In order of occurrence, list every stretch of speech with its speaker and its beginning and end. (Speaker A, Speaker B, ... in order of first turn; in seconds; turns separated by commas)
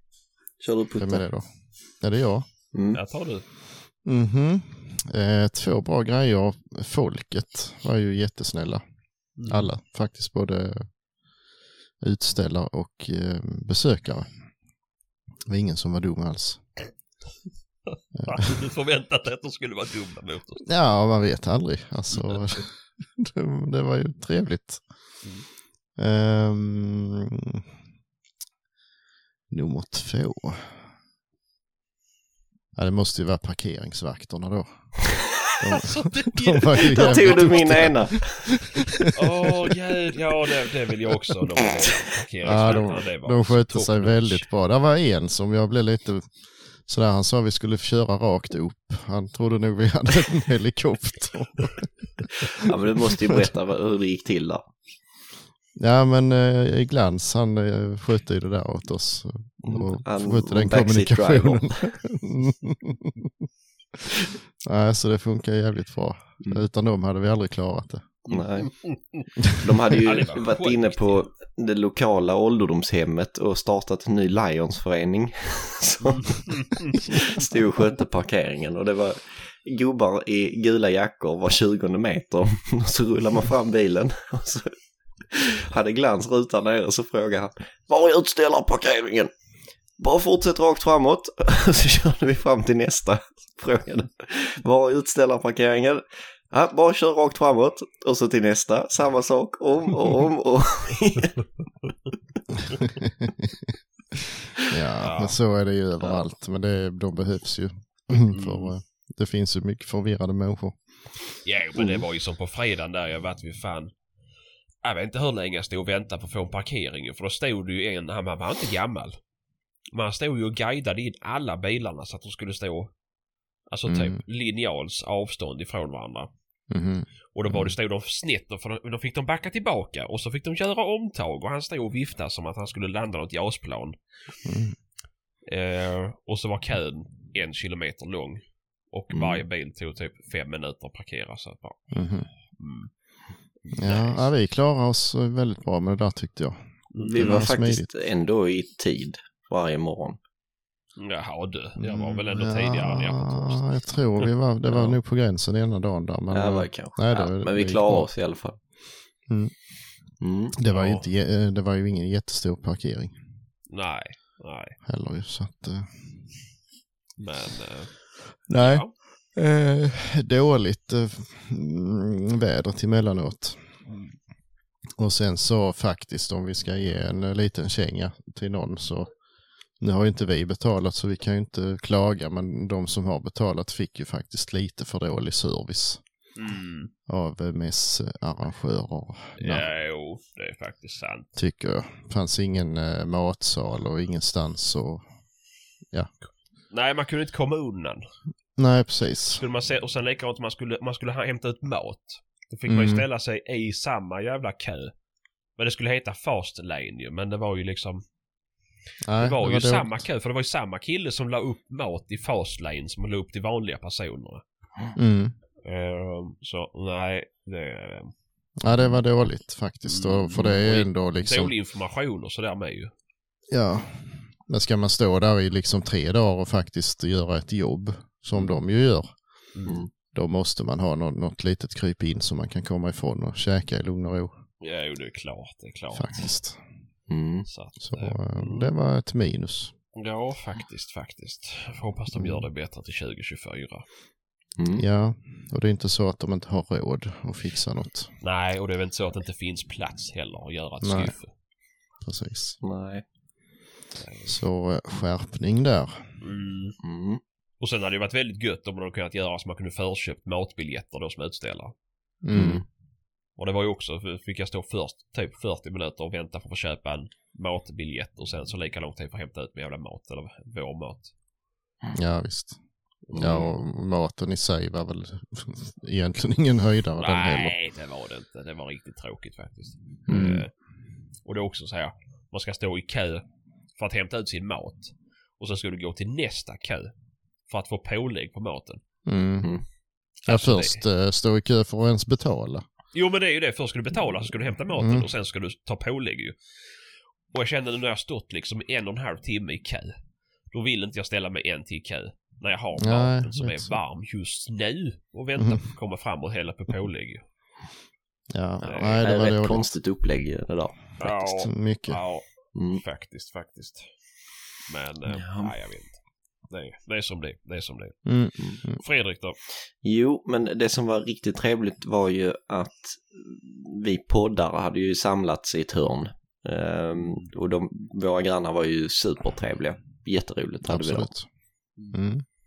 Speaker A: 0.6-1.2, Speaker B: 1.0-1.4, Speaker B: 2.0-2.5, Speaker A: 2.7-3.0, Speaker C: 2.9-3.5, Speaker B: 4.0-8.8, Speaker C: 9.4-9.7, Speaker B: 9.5-10.9, Speaker B: 12.0-14.3, Speaker B: 15.5-16.6, Speaker B: 18.2-18.4, Speaker C: 18.3-20.6, Speaker B: 20.6-24.8, Speaker B: 26.0-27.6, Speaker B: 29.5-30.6, Speaker B: 32.8-39.4, Speaker C: 35.7-37.9, Speaker A: 36.8-38.5, Speaker C: 39.0-44.5, Speaker B: 42.4-46.3, Speaker B: 46.9-52.7, Speaker A: 52.6-54.7, Speaker B: 55.8-63.1, Speaker A: 59.6-61.9, Speaker B: 64.7-68.1, Speaker A: 68.3-68.8, Speaker C: 68.3-69.2, Speaker A: 69.6-84.8, Speaker C: 70.0-71.2, Speaker C: 76.4-77.1, Speaker A: 85.3-89.3, Speaker A: 90.0-101.4, Speaker B: 103.0-103.5, Speaker B: 104.7-110.8, Speaker C: 105.0-105.4, Speaker C: 108.3-108.7, Speaker C: 111.5-113.9, Speaker A: 111.8-112.0, Speaker C: 114.8-119.2, Speaker C: 119.9-122.9, Speaker C: 123.7-126.3, Speaker B: 123.9-124.2, Speaker B: 126.7-127.7, Speaker C: 127.3-134.0, Speaker B: 134.4-134.8, Speaker C: 135.5-141.9, Speaker A: 139.1-139.4, Speaker B: 141.9-142.3, Speaker C: 142.6-142.9, Speaker C: 143.7-144.3, Speaker B: 143.8-146.6, Speaker C: 146.9-147.5, Speaker A: 146.9-150.2, Speaker B: 147.2-147.9, Speaker C: 151.0-153.7, Speaker B: 151.8-158.1, Speaker A: 156.3-158.6, Speaker B: 159.3-159.5, Speaker A: 160.2-160.6, Speaker B: 160.6-163.2, Speaker C: 160.7-161.1, Speaker C: 163.7-164.8, Speaker B: 164.8-165.9, Speaker C: 167.2-168.0, Speaker B: 168.5-173.6, Speaker C: 168.6-168.9, Speaker C: 173.9-174.2, Speaker B: 175.0-179.1, Speaker B: 179.8-186.0, Speaker C: 186.4-186.9, Speaker B: 187.1-189.7, Speaker C: 189.4-191.3, Speaker B: 191.4-195.0, Speaker C: 196.7-198.0, Speaker B: 198.6-199.4, Speaker C: 199.3-204.9, Speaker B: 202.7-203.1, Speaker C: 205.6-208.0, Speaker B: 209.0-210.0, Speaker C: 209.2-214.4, Speaker B: 215.0-215.4, Speaker C: 215.7-218.1, Speaker B: 218.6-221.5, Speaker C: 219.9-222.9, Speaker B: 223.5-229.1, Speaker A: 229.7-229.9, Speaker B: 230.1-234.3, Speaker C: 234.6-236.3, Speaker B: 235.9-236.6, Speaker A: 237.1-237.5, Speaker C: 237.5-238.7, Speaker B: 237.8-239.7, Speaker C: 240.0-243.9, Speaker B: 242.2-242.4, Speaker A: 244.6-244.8, Speaker B: 244.8-248.1, Speaker C: 248.2-251.3, Speaker B: 250.8-251.1, Speaker B: 252.0-252.6, Speaker A: 252.6-253.0, Speaker C: 254.0-254.4, Speaker B: 254.3-256.0, Speaker C: 256.2-256.8, Speaker A: 256.8-257.2, Speaker C: 257.6-261.7, Speaker B: 262.2-262.6, Speaker A: 262.3-262.6, Speaker C: 263.4-271.1, Speaker B: 271.9-272.6, Speaker A: 273.1-273.5, Speaker B: 273.1-277.5, Speaker C: 277.0-280.5, Speaker A: 280.1-280.4, Speaker C: 281.2-283.2, Speaker C: 283.8-286.9, Speaker C: 287.5-288.8, Speaker B: 289.1-289.5, Speaker C: 290.2-290.8, Speaker B: 290.3-292.6, Speaker C: 292.9-296.4, Speaker B: 294.8-295.1, Speaker C: 297.3-299.9, Speaker C: 300.5-307.2, Speaker B: 302.8-303.8, Speaker B: 308.3-309.7, Speaker C: 308.6-309.0, Speaker A: 309.0-311.3, Speaker C: 311.0-313.9, Speaker B: 311.4-312.0, Speaker A: 312.6-312.8, Speaker C: 314.6-318.1, Speaker A: 315.1-315.5, Speaker B: 318.1-318.8, Speaker C: 318.6-319.4, Speaker A: 319.8-331.1, Speaker B: 330.7-331.3, Speaker B: 331.9-332.2